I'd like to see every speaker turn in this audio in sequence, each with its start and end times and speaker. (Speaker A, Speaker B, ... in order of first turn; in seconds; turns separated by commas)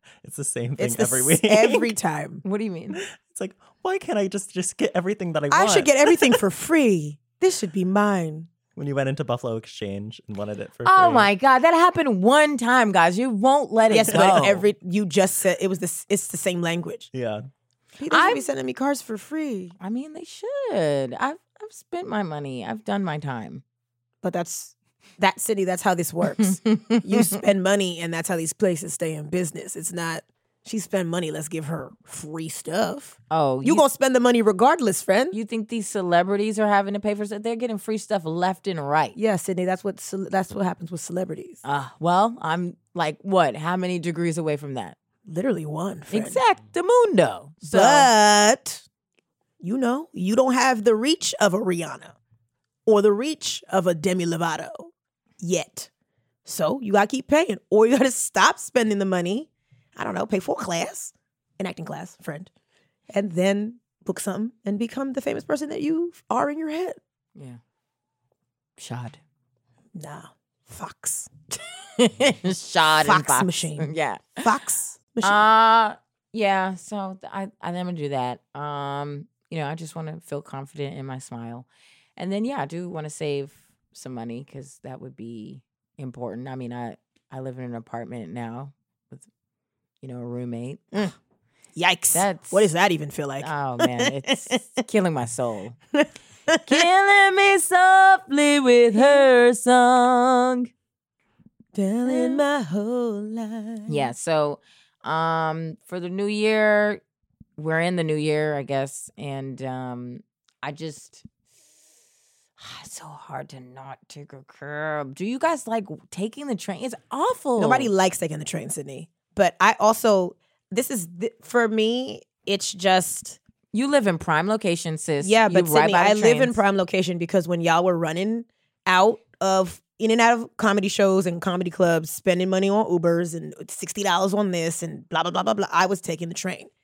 Speaker A: 0.2-1.9, Speaker B: 0.8-2.4, Speaker C: 2.4-3.0, Speaker A: 2.9-6.4, Speaker B: 5.5-8.5, Speaker A: 8.8-11.3, Speaker C: 10.8-14.6, Speaker B: 13.9-17.1, Speaker A: 14.1-14.6, Speaker A: 17.1-17.5, Speaker B: 18.0-19.8, Speaker C: 18.1-18.5, Speaker C: 19.8-23.6, Speaker B: 24.2-35.4, Speaker C: 26.4-27.4, Speaker C: 33.3-33.9, Speaker C: 35.3-39.2, Speaker B: 39.1-41.6, Speaker C: 41.6-45.0, Speaker B: 45.3-46.4, Speaker C: 46.1-48.1, Speaker B: 47.6-48.8, Speaker B: 49.6-52.2, Speaker B: 52.9-55.9, Speaker B: 56.5-62.5, Speaker B: 63.1-67.0, Speaker C: 67.3-67.6, Speaker C: 68.8-69.2, Speaker B: 70.0-71.3, Speaker C: 72.0-74.5, Speaker B: 73.0-75.4, Speaker C: 75.2-89.3, Speaker C: 90.0-91.1, Speaker B: 91.8-94.6, Speaker C: 92.1-92.7, Speaker C: 93.4-95.8, Speaker B: 95.9-96.9, Speaker C: 96.7-100.7, Speaker B: 99.0-99.2, Speaker B: 101.7-104.1, Speaker C: 102.1-102.4, Speaker C: 103.9-107.0, Speaker C: 107.6-111.2, Speaker C: 112.6-117.9, Speaker B: 117.6-123.4, Speaker C: 123.7-126.6, Speaker B: 125.2-136.7